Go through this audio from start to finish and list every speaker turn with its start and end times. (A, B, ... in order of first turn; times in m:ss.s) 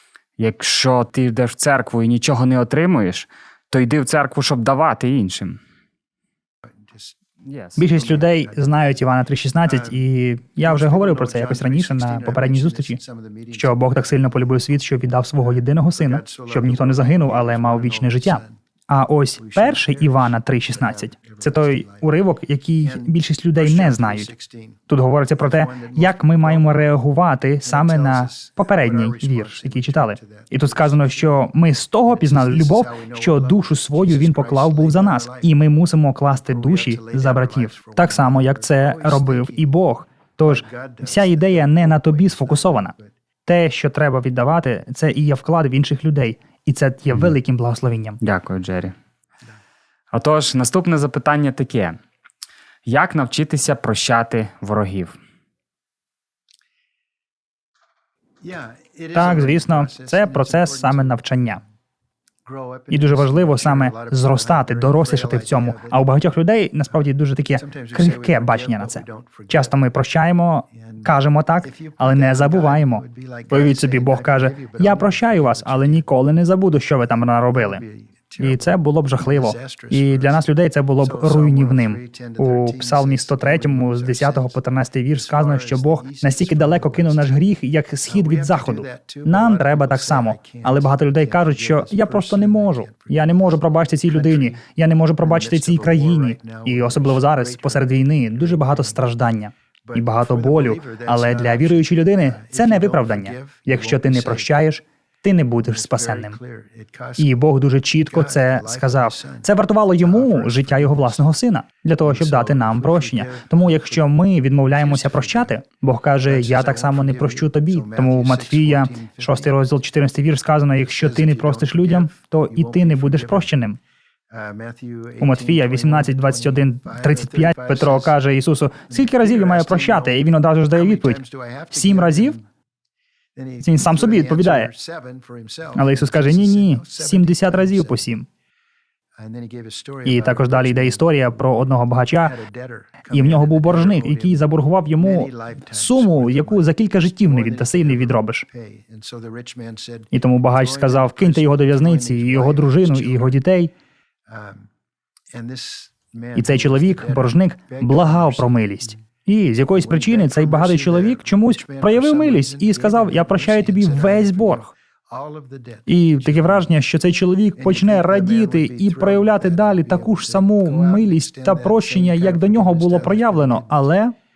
0:00.4-0:05.6 A
0:06.6-0:07.1 B
0:07.4-0:07.8 A
0:07.8-0:08.7 B
0:07.8-0:13.0 C
0:09.6-0:10.0 B
0:10.6-0:14.2 B
0:13.5-0:24.3 C
0:15.5-0:18.6 B
0:19.4-0:22.1 B
0:22.8-0:24.8 B
0:24.9-0:42.9 C
0:25.4-0:27.0 B
0:27.6-0:31.5 B
0:32.1-0:35.5 B
0:36.4-0:39.7 B
0:40.4-0:43.1 B
0:43.4-0:48.2 C
0:48.2-0:48.9 A
0:50.1-0:52.0 A
0:52.8-0:55.2 A
0:58.4-1:01.2 B
0:59.1-1:01.6 C
1:02.4-1:06.1 B
1:02.9-1:17.8 C
1:07.6-1:09.8 B
1:10.7-1:16.1 B
1:17.5-1:20.5 B
1:18.4-1:46.4 C
1:21.0-1:27.4 B
1:28.0-1:34.6 B
1:35.2-1:39.1 B
1:39.8-1:44.5 B
1:45.6-1:47.3 B
1:47.2-2:03.8 C
1:48.1-1:51.3 B
1:52.0-1:54.0 B
1:54.7-1:55.6 B
1:56.2-1:59.5 B
2:00.8-2:03.5 B
2:04.3-2:08.1 B
2:05.2-2:11.2 C
2:08.9-2:12.4 B
2:11.7-2:12.4 C
2:13.3-2:18.1 B
2:13.6-2:14.7 C
2:15.7-2:18.2 C
2:19.2-2:21.4 B
2:20.0-2:22.4 C
2:22.2-2:24.4 B
2:23.1-2:28.4 C
2:25.0-2:33.4 B
2:30.1-2:33.7 C
2:34.3-2:34.7 B
2:35.3-2:38.6 B
2:36.3-2:44.7 C
2:39.7-2:46.7 B
2:45.9-2:54.1 C
2:47.6-2:53.9 B